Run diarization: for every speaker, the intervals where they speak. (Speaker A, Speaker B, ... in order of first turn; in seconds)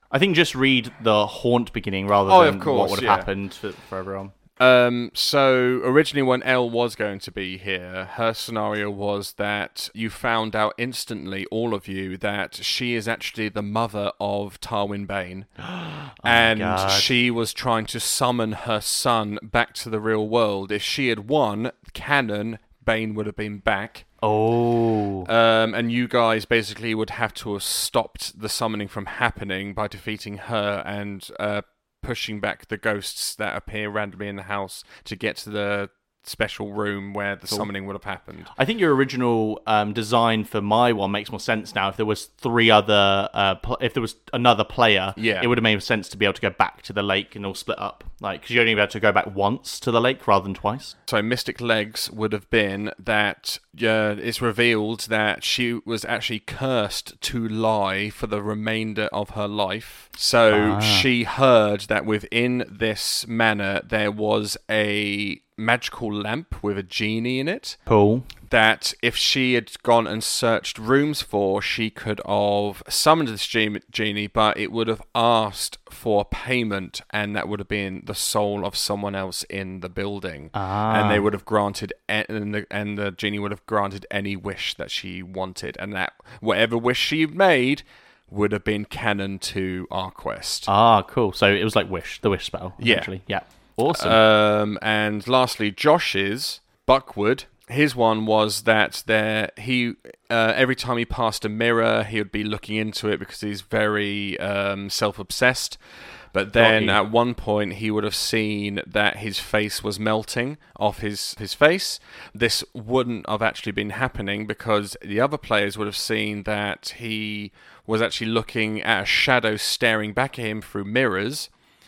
Speaker A: 0.1-4.3, 15.8-17.1, 24.2-25.3, 38.5-51.0, 60.5-61.1, 67.9-68.3, 80.5-81.3, 90.7-94.2, 106.6-107.0
Speaker B: 2.3-3.3, 4.6-15.7, 16.2-24.1, 25.3-38.5, 45.2-45.5, 51.1-67.8, 68.5-90.7, 92.8-93.1, 93.9-105.8, 106.3-121.5